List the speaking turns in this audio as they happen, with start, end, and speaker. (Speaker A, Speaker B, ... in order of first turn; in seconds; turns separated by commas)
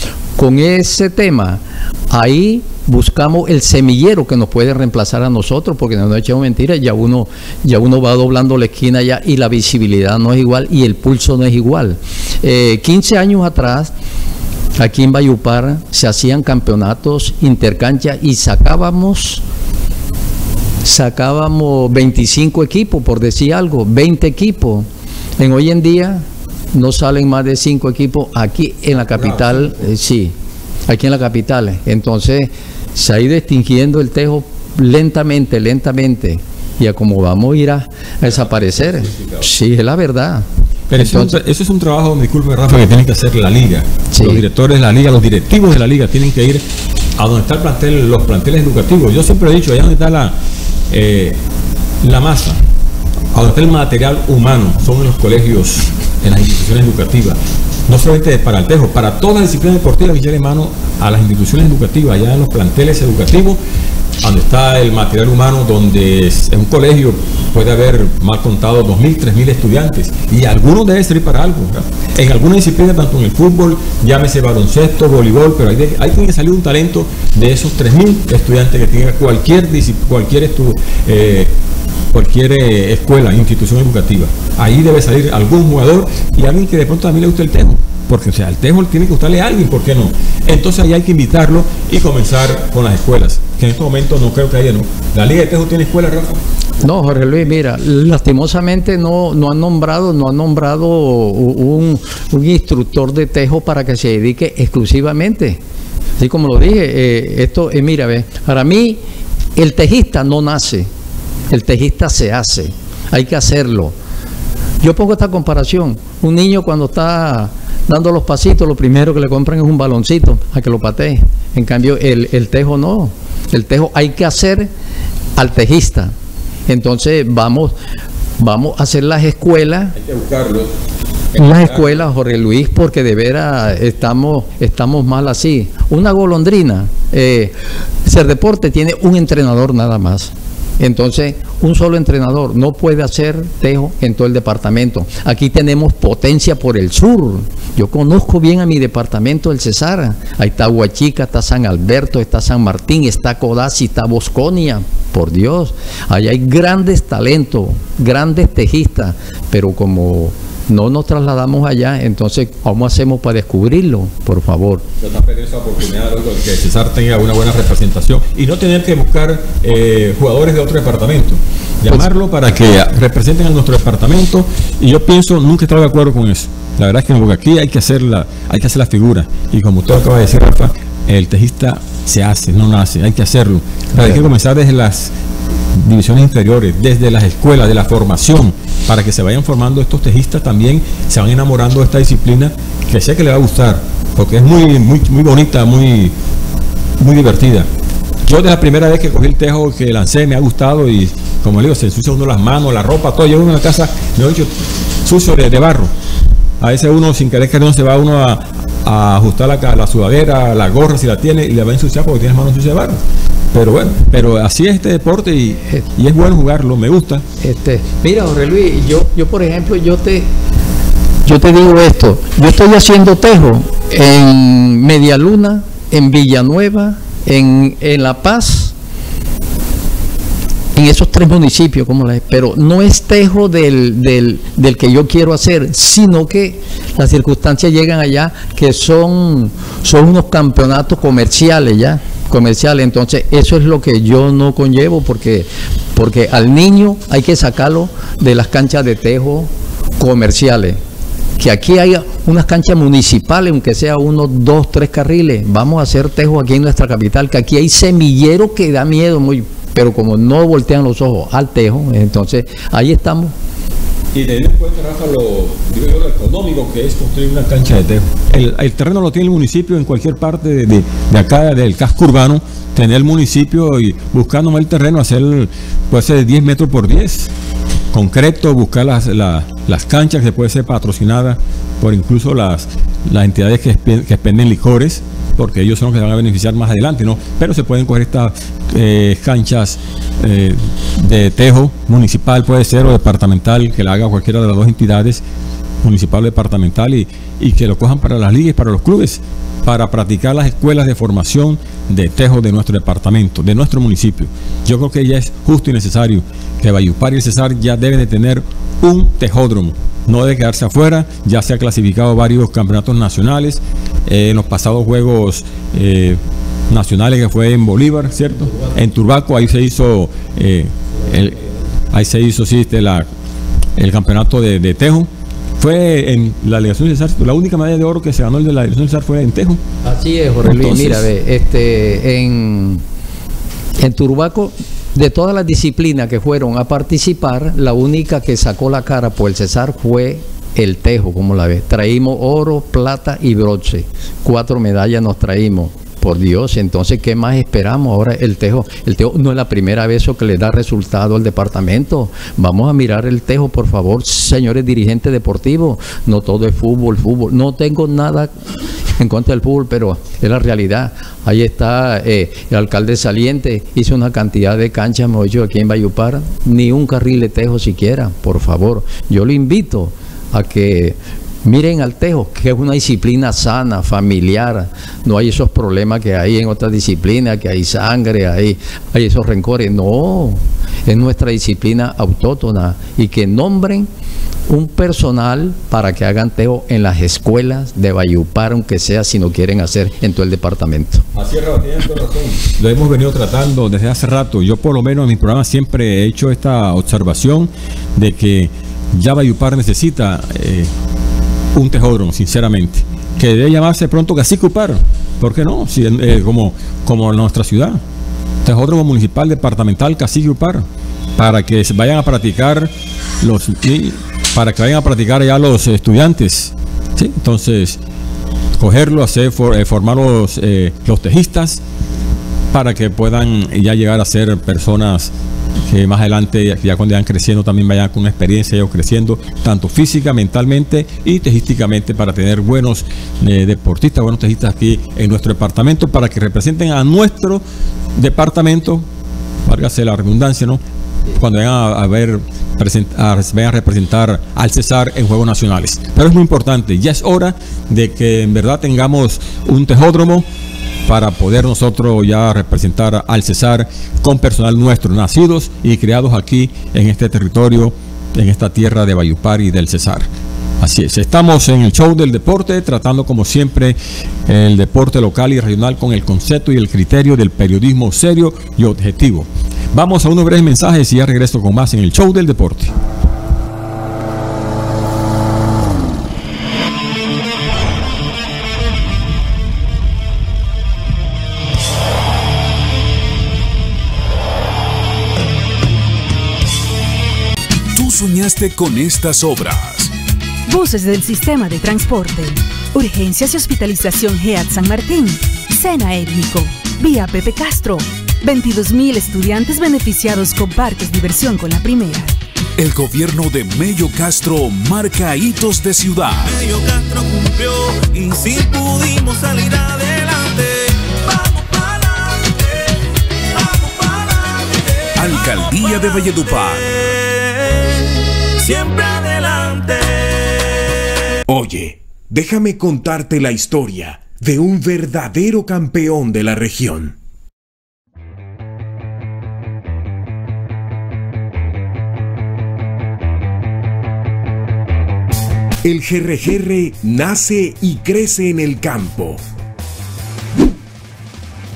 Speaker A: 0.4-13.9, Speaker A: 14.8-19.4, Speaker A: 20.8-24.9, Speaker A: 25.4-30.3, Speaker B: 29.0-29.9, Speaker A: 30.9-41.4, Speaker B: 38.4-39.5, Speaker B: 40.9-46.6, Speaker A: 44.1-44.4, Speaker B: 47.2-50.3, Speaker B: 50.9-51.4, Speaker B: 52.0-52.6, Speaker B: 53.3-63.6, Speaker B: 64.2-81.5, Speaker B: 82.1-96.4, Speaker A: 96.8-105.6, Speaker A: 106.2-109.0, Speaker A: 109.5-110.9, Speaker A: 111.5-113.9, Speaker A: 114.8-124.7, Speaker A: 125.3-126.1, Speaker A: 126.7-127.7, Speaker A: 128.4-129.9, Speaker B: 129.9-130.7, Speaker B: 131.3-131.9, Speaker A: 131.4-164.8, Speaker B: 165.0-185.1, Speaker A: 183.9-184.3, Speaker B: 185.7-196.1, Speaker B: 197.0-197.7, Speaker B: 198.2-205.9, Speaker B: 206.6-213.0, Speaker B: 213.5-217.2, Speaker A: 217.4-220.3, Speaker A: 221.2-228.7, Speaker A: 230.7-250.8, Speaker A: 251.4-263.3, Speaker B: 264.1-277.3, Speaker B: 277.9-295.2, Speaker B: 295.8-316.2, Speaker B: 316.7-321.4, Speaker B: 321.9-323.1, Speaker B: 323.8-329.6, Speaker A: 329.8-332.8, Speaker B: 330.4-331.1, Speaker A: 333.8-358.3, Speaker A: 358.9-383.9, Speaker A: 384.5-391.1, Speaker B: 391.1-400.7, Speaker B: 401.5-407.8, Speaker B: 408.4-410.6, Speaker B: 411.2-417.8, Speaker B: 418.6-421.6, Speaker B: 422.5-425.1, Speaker B: 425.7-437.4, Speaker B: 437.9-438.9, Speaker B: 439.4-440.6, Speaker B: 441.1-450.3, Speaker B: 450.9-460.1, Speaker B: 460.6-472.7, Speaker C: 487.7-489.9, Speaker D: 490.5-502.1, Speaker C: 502.6-506.3, Speaker E: 506.2-512.7, Speaker E: 513.3-516.3, Speaker C: 515.0-516.7, Speaker E: 517.0-517.7, Speaker E: 518.4-520.4, Speaker F: 521.3-527.0, Speaker F: 535.6-539.2